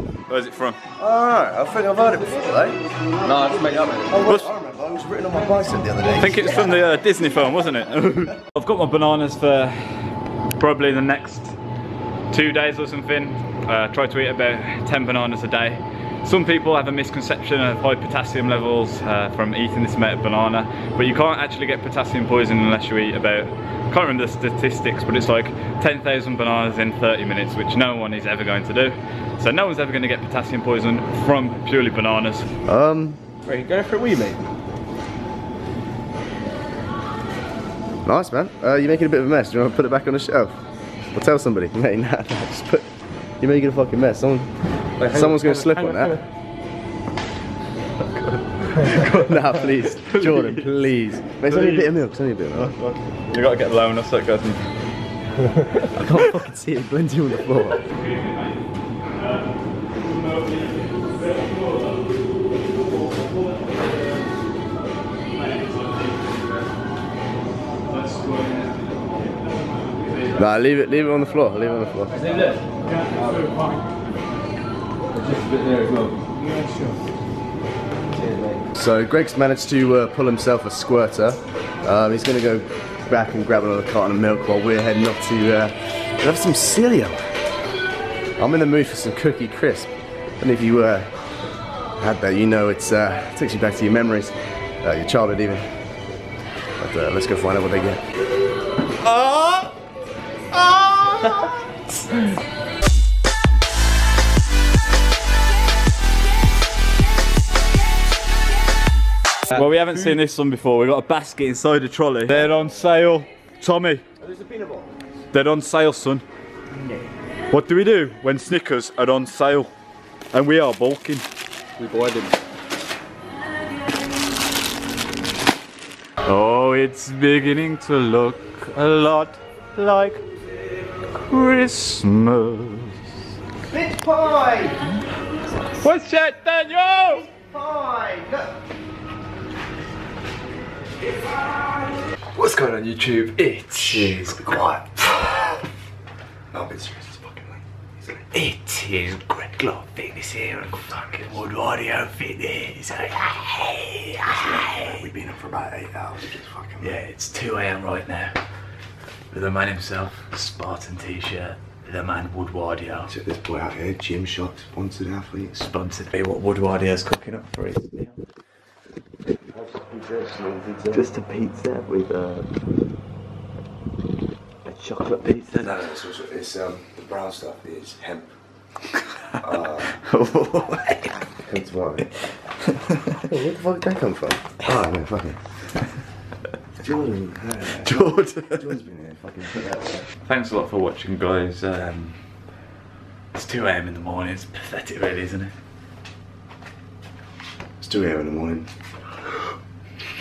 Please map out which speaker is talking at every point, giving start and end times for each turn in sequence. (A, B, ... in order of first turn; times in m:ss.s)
0:00.3-0:00.8 A
0:01.0-0:02.8 B
0:03.2-0:04.1 C
0:04.0-0:06.5 B
0:06.2-0:10.0 A
0:10.6-0:11.6 A
0:12.3-0:32.4 A
0:32.7-0:33.2 B
0:33.4-0:34.4 C
0:38.0-0:40.6 B
0:41.1-0:44.5 B
0:45.0-0:46.2 B
0:48.2-0:49.1 A
0:48.8-0:52.7 B
0:50.0-0:50.8 A
0:51.4-0:51.9 A
0:52.5-0:54.6 A
0:55.9-0:57.8 B
0:58.0-0:58.5 A
1:00.1-1:00.9 A
1:10.3-1:12.6 B
1:13.2-1:13.4 C
1:15.2-1:16.1 C
1:18.7-1:27.2 B
1:28.4-1:31.1 B
1:32.0-1:35.6 B
1:36.8-1:38.0 B
1:39.0-1:39.7 A
1:40.5-1:41.5 A
1:49.5-1:54.0 A
1:54.3-1:54.8 C
1:55.3-1:56.2 A
1:57.5-1:59.7 A
2:00.3-2:01.2 A
2:01.8-2:02.4 C
2:06.2-2:10.2 A
2:11.2-2:13.0 A
2:13.7-2:14.8 B
2:15.8-2:17.3 A
2:17.2-2:18.5 B
2:22.3-2:25.5 A
2:24.4-2:24.8 B
2:26.5-2:28.1 B
2:28.3-2:35.0 A
2:34.3-2:37.0 B
2:36.8-2:38.3 A
2:39.3-2:43.1 A
2:43.1-2:45.5 B
2:45.5-2:48.2 A
2:49.5-2:51.0 B
2:50.9-2:52.5 A
2:54.6-2:55.8 A
2:55.6-2:58.3 B
2:59.4-2:59.9 B
3:00.0-3:01.2 A
3:01.3-3:02.0 B
3:02.8-3:03.1 A
3:03.2-3:05.4 B
3:06.8-3:10.0 B
3:07.8-3:08.6 A
3:10.2-3:12.2 A
3:13.3-3:15.5 A
3:17.8-3:18.7 B